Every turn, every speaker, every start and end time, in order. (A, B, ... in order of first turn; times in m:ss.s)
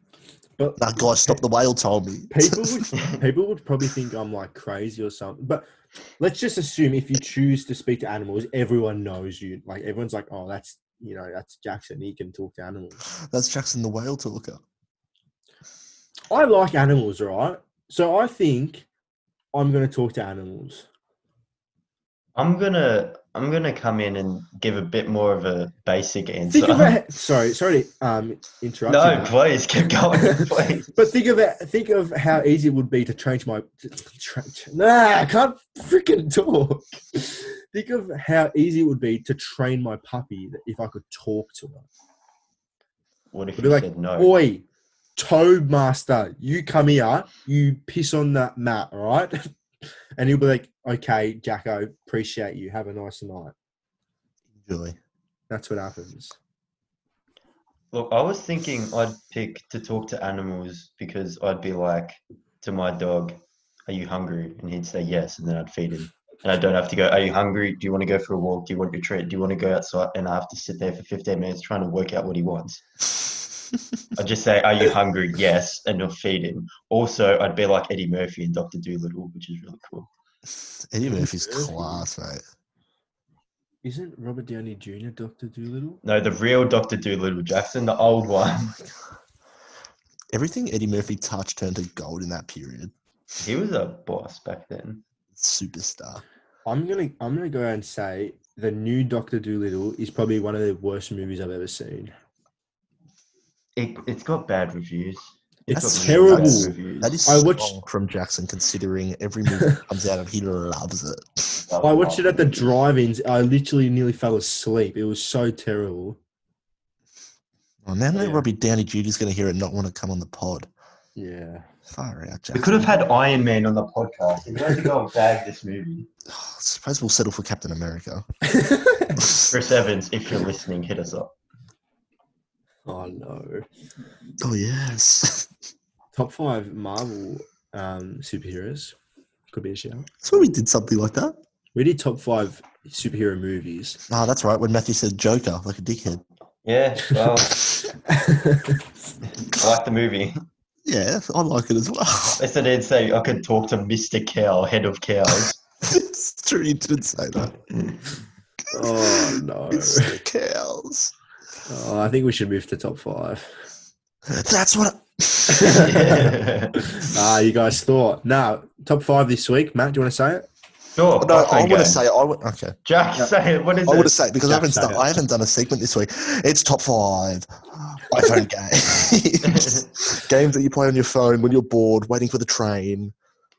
0:00.6-0:01.4 A
0:00.8-0:02.9 B
0:02.3-0:05.7 A
0:06.2-0:13.0 A
0:13.3-0:14.6 B
0:16.3-0:18.9 A
0:19.5-0:20.9 A
0:22.4-0:27.0 C
0:26.5-0:29.3 A
0:28.9-0:30.9 C
0:31.0-0:41.9 A
0:43.3-0:44.4 C
0:43.6-0:44.6 A
0:45.2-0:49.5 A
0:50.2-0:53.6 A
0:54.6-0:55.0 B
0:55.5-0:56.4 A
0:57.9-1:12.8 C
1:14.1-1:20.1 C
1:20.9-1:22.4 B
1:21.1-1:22.0 A
1:23.8-1:26.0 A
1:26.0-1:28.8 C
1:30.3-1:32.9 B
1:33.4-1:35.0 C
1:35.4-1:36.2 B
1:36.7-1:42.1 A
1:43.8-1:47.2 C
1:45.7-1:46.7 A
1:46.0-1:51.6 B
1:47.2-1:47.7 A
1:51.6-1:52.7 C
1:51.8-1:56.2 A
1:57.8-2:00.7 B
1:58.2-1:58.4 A
2:01.2-2:01.7 A
2:01.9-2:03.0 B
2:02.5-2:06.1 C
2:06.3-2:08.2 B
2:08.5-2:09.2 A
2:09.2-2:09.6 B
2:09.5-2:11.4 C
2:12.9-2:13.7 A
2:14.4-2:15.5 B
2:16.1-2:19.0 A
2:19.5-2:20.1 A
2:20.2-2:21.4 B
2:21.7-2:24.0 A
2:24.1-2:26.2 B
2:26.6-2:27.6 C
2:28.1-2:28.8 A
2:29.4-2:30.4 C
2:30.8-2:32.4 B
2:32.4-2:35.6 C
2:35.8-2:37.5 B
2:37.7-2:38.0 C
2:38.7-2:40.2 A
2:38.7-2:41.1 B
2:41.7-2:43.6 A
2:44.3-2:46.2 B
2:45.5-2:50.4 A
2:45.7-2:46.9 C
2:51.0-2:52.0 C
2:51.2-2:52.8 B
2:52.9-2:54.1 C
2:53.9-3:03.1 B
2:54.4-2:55.1 A
2:59.4-2:59.8 C